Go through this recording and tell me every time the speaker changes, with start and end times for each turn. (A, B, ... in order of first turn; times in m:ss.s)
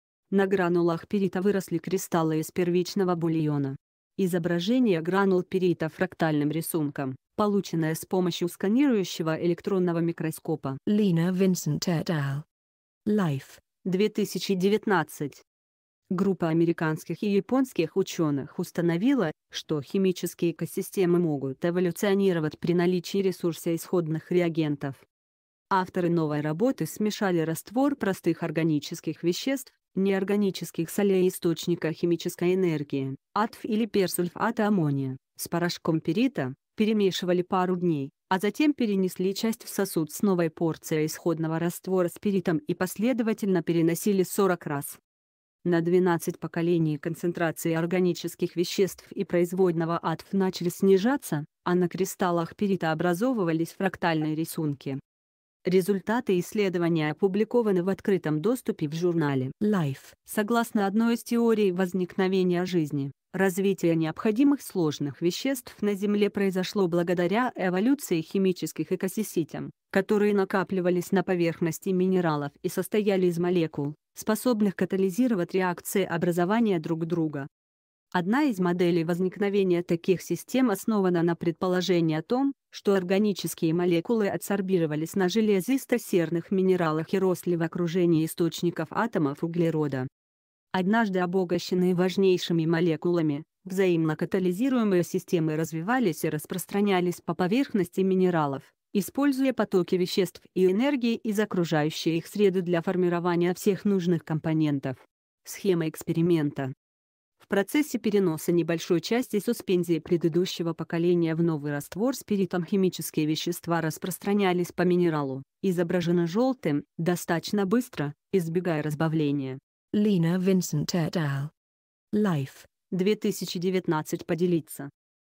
0:00.3-0:10.8 A
0:10.9-0:12.5 B
0:13.1-0:13.6 B
0:13.8-0:15.4 A
0:16.1-0:25.0 A
0:25.7-0:45.0 A
0:45.6-0:55.0 A
0:55.7-0:59.6 A
0:59.6-1:00.2 B
1:00.2-1:17.5 A
1:18.1-1:30.1 A
1:30.7-1:46.7 A
1:47.4-1:59.6 A
1:59.9-2:01.5 B
2:02.1-2:02.7 B
2:02.9-2:04.9 A